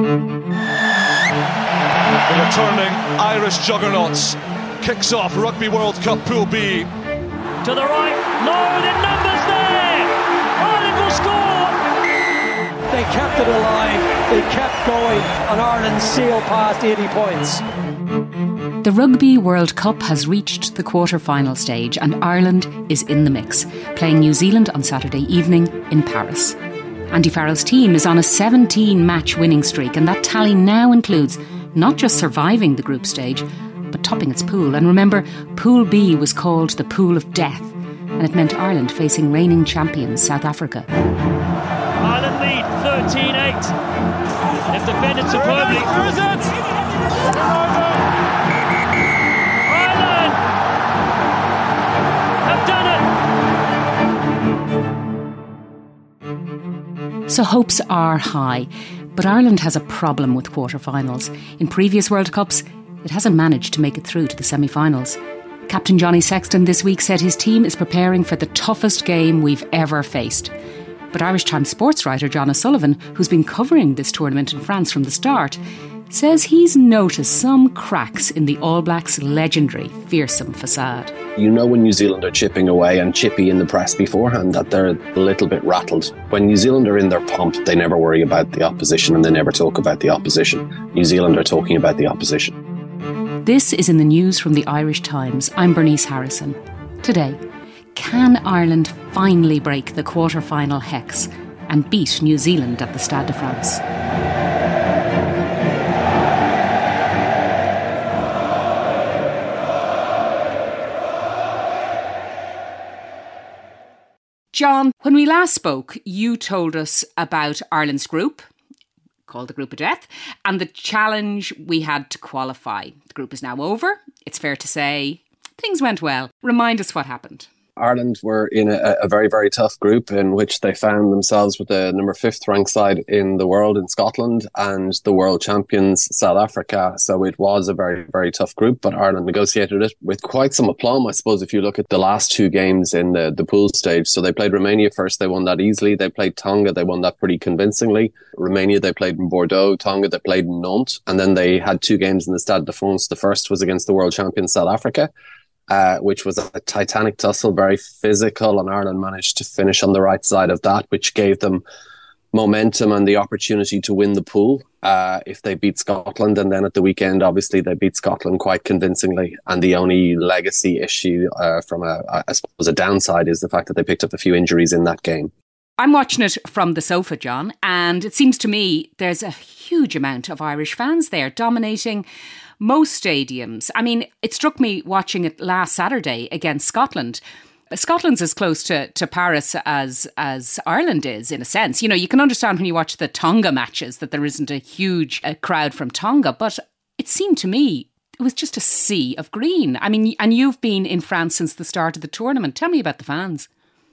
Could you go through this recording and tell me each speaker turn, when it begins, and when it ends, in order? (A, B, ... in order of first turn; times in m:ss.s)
0:02.3-0:06.9 A
0:07.6-0:11.8 B
0:12.9-0:17.6 C
0:18.8-0:26.6 D
0:27.1-0:40.9 D
0:42.0-0:43.7 B
0:44.7-0:46.4 B
0:47.3-0:47.9 B
0:49.7-0:50.4 B
0:52.4-0:53.0 B
0:57.3-1:10.5 D
1:11.1-1:21.1 D
1:21.4-1:32.6 E
1:33.4-1:37.4 D
1:37.9-1:43.8 D
1:54.5-1:58.5 D
1:59.3-2:07.5 D
2:07.8-2:35.1 E
2:35.7-2:41.6 E
2:42.3-2:55.3 E
2:55.8-3:02.0 D
3:02.6-3:23.5 D